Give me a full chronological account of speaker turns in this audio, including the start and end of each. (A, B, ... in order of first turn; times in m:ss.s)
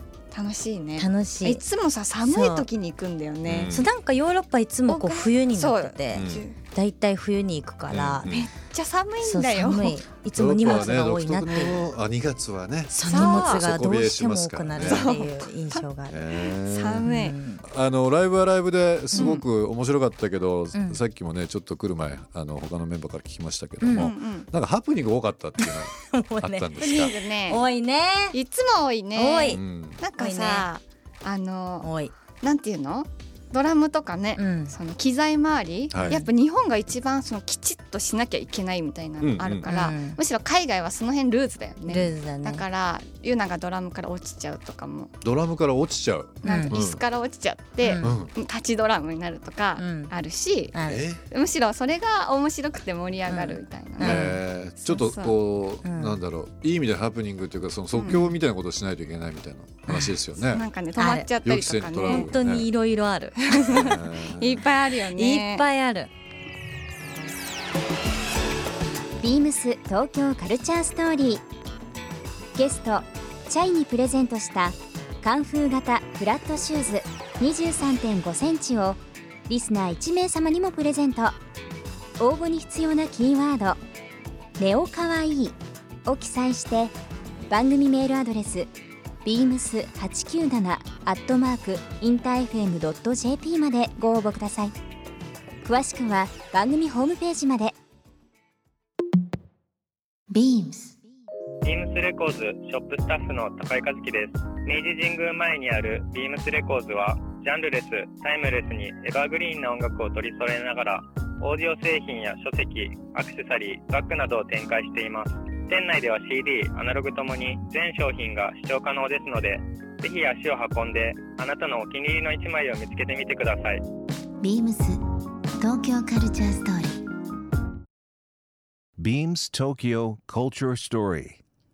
0:00.3-0:03.8 A
0:01.0-0:01.6 B
0:02.2-0:02.7 B
0:03.5-0:03.9 C
0:03.6-0:08.5 B
0:04.9-0:06.6 A
0:06.1-0:06.4 C
0:07.9-0:08.5 C
0:08.3-0:10.1 A
0:09.2-0:11.9 B
0:10.3-0:15.1 C
0:12.9-0:16.2 B
0:13.1-0:13.8 A
0:14.8-0:17.4 A
0:16.1-0:27.2 C
0:17.0-0:17.6 B
0:19.1-0:19.4 B
0:19.2-0:19.4 A
0:20.7-0:21.0 B
0:23.8-0:24.2 B
0:24.0-0:24.5 A
0:25.6-0:28.4 B
0:26.8-0:27.7 A
0:28.3-0:45.1 A
0:29.1-0:29.6 B
0:29.5-0:30.0 C
0:30.1-0:30.7 B
0:31.8-0:32.1 B
0:34.3-0:34.8 B
0:35.9-0:36.2 C
0:36.0-0:36.4 B
0:39.2-0:39.7 C
0:39.6-0:40.2 B
0:41.9-0:42.7 B
0:45.2-0:47.0 C
0:46.4-0:47.0 B
0:46.4-0:55.3 A
0:47.8-0:48.2 B
0:48.0-0:48.3 C
0:49.7-0:50.2 B
0:50.7-0:51.1 B
0:50.8-0:51.2 C
0:53.2-0:54.4 B
0:54.0-1:00.6 C
0:55.8-0:56.2 B
0:57.9-0:58.3 A
0:59.9-1:00.2 B
1:00.5-1:02.3 A
1:01.0-1:01.4 B
1:01.4-1:02.7 C
1:02.0-1:04.0 B
1:03.4-1:05.7 A
1:03.6-1:04.6 C
1:04.8-1:06.1 B
1:09.2-1:11.4 D
1:12.6-1:21.3 D
1:22.2-1:23.8 D
1:24.6-1:26.9 D
1:27.5-1:28.7 D
1:29.2-1:34.7 D
1:35.6-1:37.8 D
1:40.3-1:41.0 E
1:41.6-2:03.8 F
2:04.4-2:05.0 E
2:05.6-2:07.0 E
2:09.0-2:11.4 G